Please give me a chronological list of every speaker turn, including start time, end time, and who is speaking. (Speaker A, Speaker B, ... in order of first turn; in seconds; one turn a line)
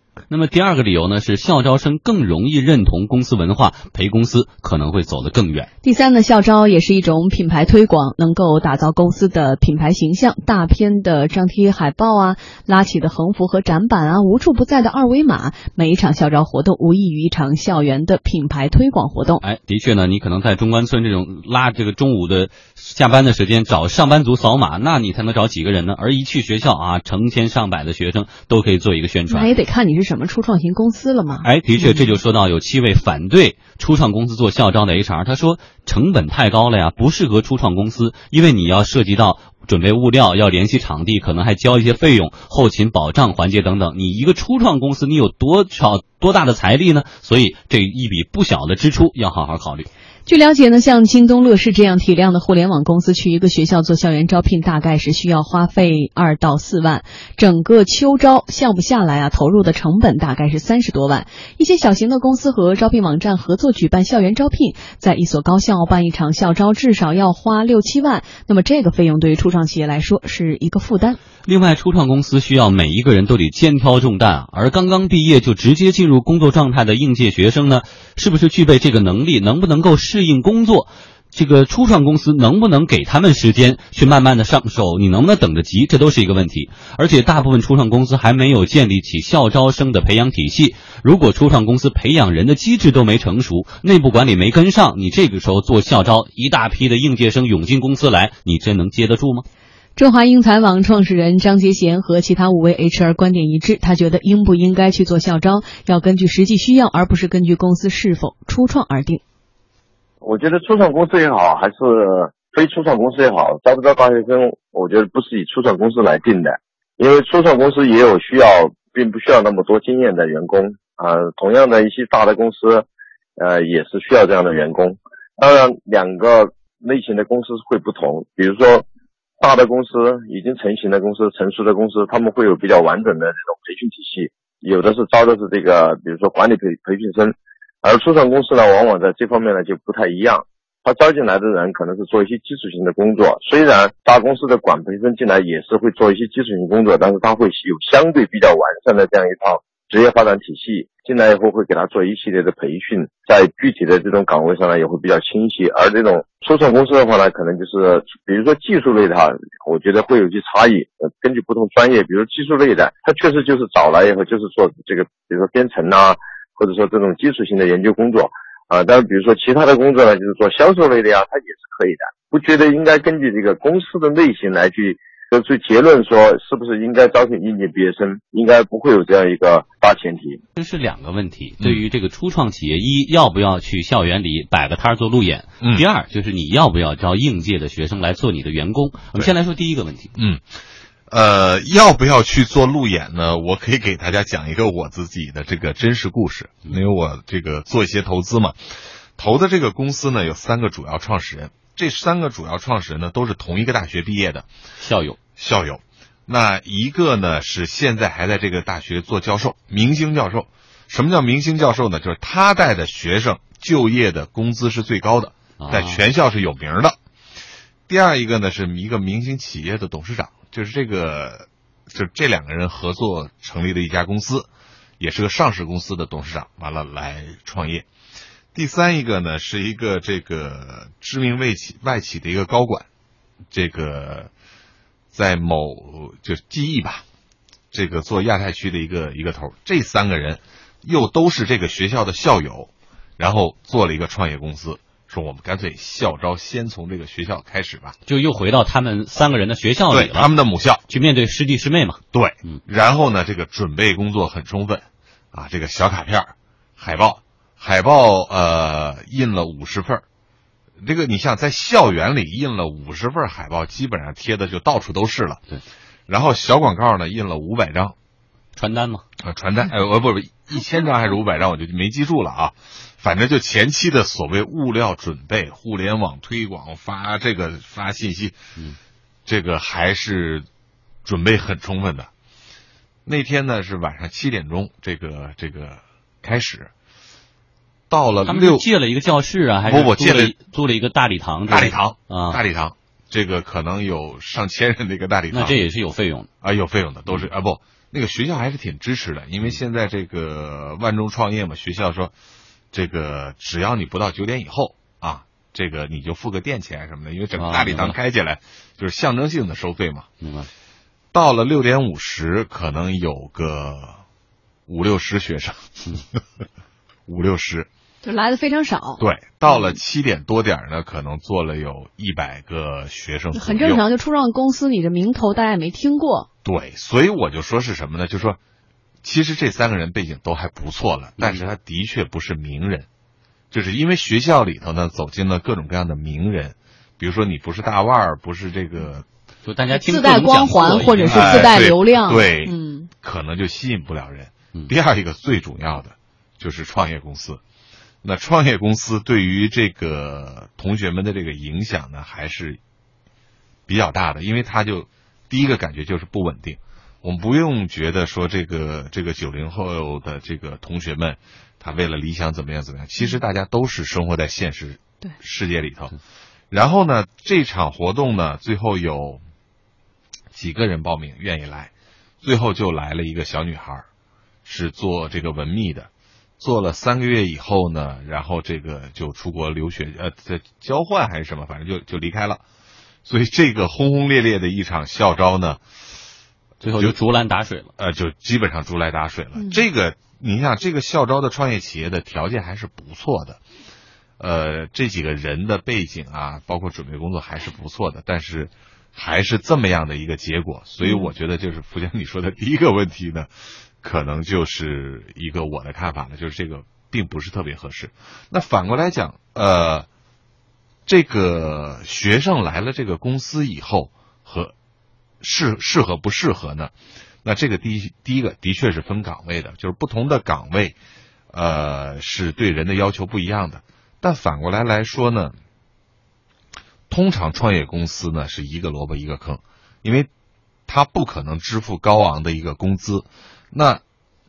Speaker A: 0.3-5.7
Speaker B: 5.8-19.4
Speaker A: 19.4-29.5
Speaker B: 29.3-32.1
Speaker A: 31.4-49.9
Speaker B: 50.2-71.2
Speaker A: 71.4-99.4
Speaker B: 100.0-109.2
Speaker C: 110.2-122.8
Speaker C: 123.4-128.8
Speaker C: 129.4-180.4
Speaker A: 180.6-190.1
Speaker D: 190.1-190.4
Speaker D: 191.1-198.6
Speaker D: 199.2-204.5
Speaker A: 204.8-205.2
Speaker D: 205.4-216.9
Speaker A: 215.6-216.0
Speaker D: 217.9-224.5
Speaker D: 225.0-227.9
Speaker D: 228.5-232.9
Speaker D: 233.5-234.3
Speaker D: 235.1-237.0
Speaker D: 237.7-247.9
Speaker A: 248.1-250.3
Speaker D: 249.9-250.8
Speaker A: 250.9-252.6
Speaker D: 252.1-260.0
Speaker D: 260.8-265.4
Speaker D: 266.1-267.9
Speaker A: 268.5-269.0
Speaker D: 269.2-278.4
Speaker D: 279.2-280.4
Speaker D: 281.0-282.1
Speaker D: 283.1-286.7
Speaker D: 287.9-288.7
Speaker A: 288.2-292.4
Speaker D: 289.6-290.3
Speaker D: 291.5-295.6
Speaker A: 295.3-296.3
Speaker D: 296.4-302.1
Speaker D: 302.7-310.1
Speaker A: 307.3-307.9
Speaker A: 310.2-310.5
Speaker D: 311.1-314.0
Speaker D: 314.7-316.2
Speaker D: 317.1-317.7
Speaker B: 318.0-319.0
Speaker D: 319.0-323.8
Speaker B: 323.3-326.3
Speaker D: 326.4-328.4
Speaker D: 329.0-332.9
Speaker A: 331.2-331.5
Speaker D: 333.5-339.1
Speaker A: 339.4-341.5
Speaker B: 339.7-342.9
Speaker D: 341.1-347.4
Speaker D: 348.0-352.6
Speaker D: 353.7-365.9
Speaker D: 366.5-369.2
Speaker D: 370.3-371.7
Speaker D: 372.2-373.8
Speaker D: 374.4-382.4
Speaker D: 383.1-385.6
Speaker A: 386.6-387.7
Speaker D: 387.8-393.4
Speaker D: 394.2-403.3
Speaker B: 400.8-401.1
Speaker D: 403.8-409.9
Speaker D: 410.9-414.5
Speaker D: 415.2-416.7
Speaker D: 417.2-420.8
Speaker D: 421.3-425.3
Speaker D: 426.9-430.1
Speaker D: 430.7-433.8